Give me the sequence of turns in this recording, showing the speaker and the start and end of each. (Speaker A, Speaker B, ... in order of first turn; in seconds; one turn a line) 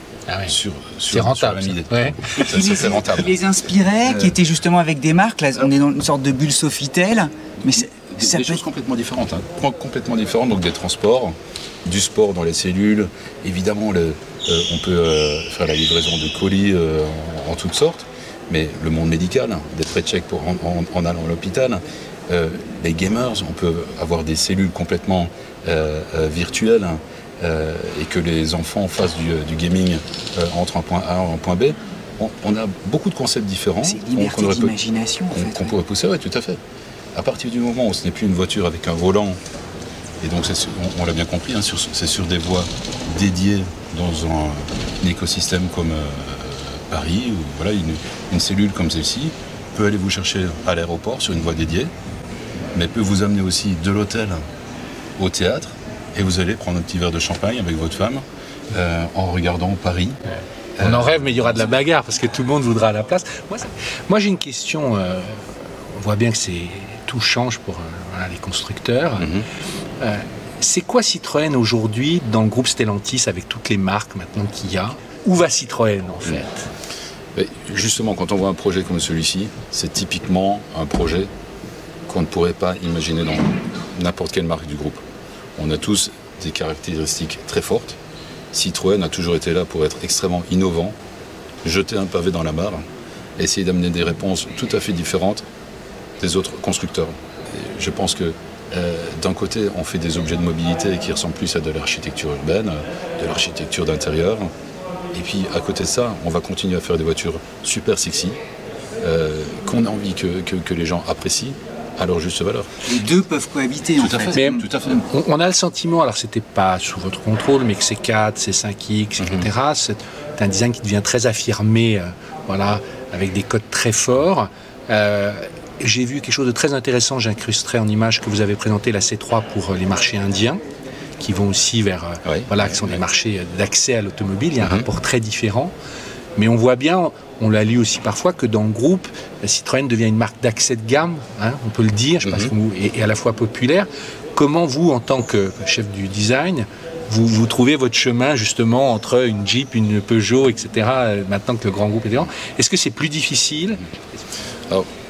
Speaker A: 0.3-0.6
Speaker B: 0.5-3.4
Speaker A: 1.1-2.4
Speaker C: 2.4-8.6
Speaker B: 4.1-4.4
Speaker B: 7.7-34.8
Speaker C: 33.8-35.7
Speaker B: 35.3-36.6
Speaker B: 37.1-39.4
Speaker B: 40.2-51.9
Speaker B: 52.7-54.4
Speaker B: 55.2-60.2
Speaker B: 60.8-61.7
Speaker A: 60.8-69.3
Speaker B: 69.2-69.5
Speaker A: 70.0-76.7
Speaker B: 77.3-81.3
Speaker B: 82.1-85.0
Speaker B: 85.6-88.0
Speaker B: 88.5-91.0
Speaker B: 91.6-92.8
Speaker B: 93.4-95.4
Speaker B: 96.2-104.5
Speaker B: 105.1-108.4
Speaker B: 109.0-112.8
Speaker C: 112.9-115.0
Speaker B: 114.0-115.0
Speaker A: 114.3-130.6
Speaker B: 119.2-119.5
Speaker A: 131.2-135.7
Speaker B: 132.2-133.0
Speaker B: 134.6-134.9
Speaker A: 136.4-153.8
Speaker B: 142.2-142.5